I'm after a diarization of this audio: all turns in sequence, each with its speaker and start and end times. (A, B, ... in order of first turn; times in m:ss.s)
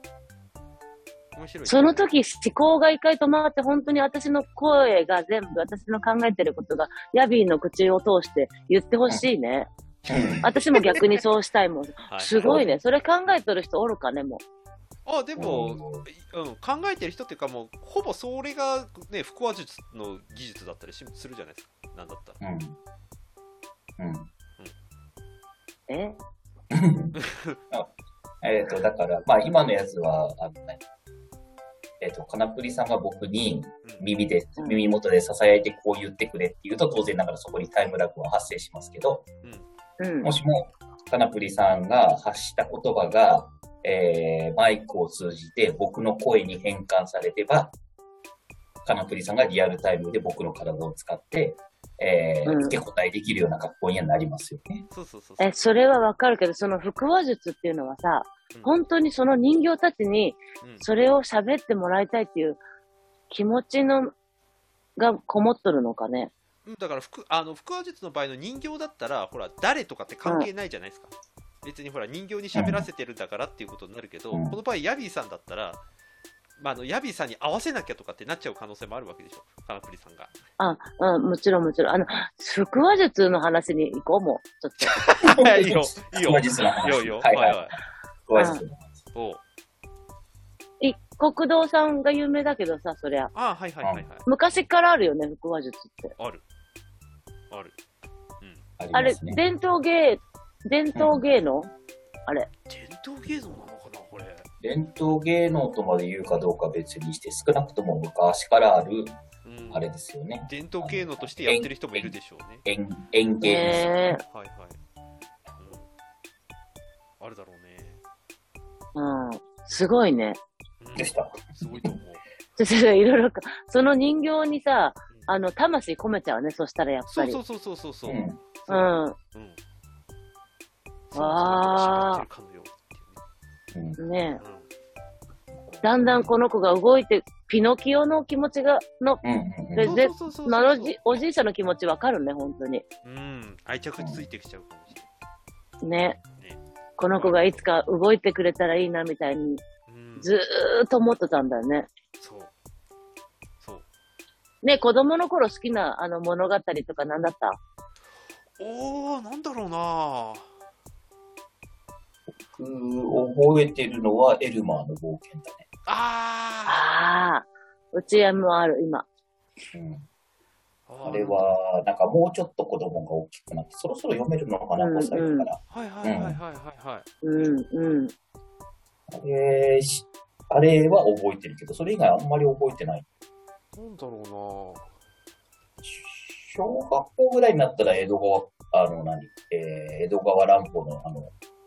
0:01.4-0:02.1 A
0:01.7-0:09.7 B
0:10.1-0:10.5 C
0:10.1-0:11.0 A
0:10.4-0:14.4 B
0:12.1-0:12.7 A
0:12.4-0:12.7 C
0:15.1-0:22.4 A
0:15.4-0:16.1 C
0:22.4-0:22.8 C
0:24.0-0:24.3 C
0:25.9-0:26.2 B
0:26.7-0:27.2 C
0:27.2-0:27.6 A
0:28.4-0:30.8 C
0:32.0-0:39.3 C
0:40.0-0:40.3 B
0:40.2-0:47.7 C
0:48.8-0:54.9 C
0:52.4-0:52.8 B
0:54.9-0:55.7 A
0:55.4-1:02.6 B
1:00.6-1:00.9 A
1:03.3-1:04.1 B
1:05.0-1:06.3 B
1:06.6-1:11.1 A
1:11.6-1:15.8 A
1:12.5-1:12.9 C
1:14.3-1:14.6 C
1:16.6-1:20.3 A
1:20.6-1:25.0 B
1:24.8-1:27.8 A
1:25.3-1:27.7 C
1:28.3-1:29.0 C
1:28.4-1:28.6 B
1:29.1-1:29.4 A
1:30.8-1:33.3 B
1:33.3-1:34.3 A
1:33.8-1:34.1 C
1:34.3-1:36.2 B
1:36.2-1:36.4 A
1:38.8-1:39.4 C
1:38.9-1:41.7 B
1:41.0-1:41.2 C
1:42.7-1:44.5 A
1:44.6-1:49.2 C
1:49.4-1:49.9 A
1:49.7-1:53.9 C
1:50.5-1:52.6 A
1:53.4-1:54.2 B
1:54.2-1:54.8 A
1:55.6-1:55.9 A
1:57.2-1:58.0 A
1:59.0-2:00.4 B
2:00.8-2:02.2 A
2:01.0-2:01.9 C
2:02.6-2:07.4 B
2:07.1-2:09.6 A
2:08.1-2:08.4 C
2:08.7-2:09.2 B
2:11.1-2:13.2 A
2:11.2-2:12.2 B
2:13.7-2:14.0 C
2:14.0-2:14.4 B
2:14.4-2:14.7 A
2:15.7-2:16.3 C
2:15.8-2:19.2 B
2:19.2-2:20.0 C
2:19.8-2:22.8 B
2:19.8-2:21.2 A
2:23.0-2:25.1 A
2:24.0-2:24.2 C
2:25.8-2:26.2 B
2:26.4-2:26.6 A
2:27.0-2:29.6 B
2:27.1-2:27.6 A
2:29.9-2:30.3 A
2:30.2-2:31.9 B
2:32.2-2:32.5 A
2:34.6-2:37.6 B
2:38.6-2:40.5 A
2:42.5-2:45.7 C
2:45.9-2:46.8 A
2:46.7-2:49.1 B
2:49.7-2:50.1 C
2:50.9-2:51.4 A
2:51.0-2:56.4 C
2:54.8-2:55.5 B
2:55.7-2:57.1 A
2:57.2-2:58.1 B
2:59.1-3:03.1 C
3:03.8-3:04.9 A
3:05.8-3:11.3 C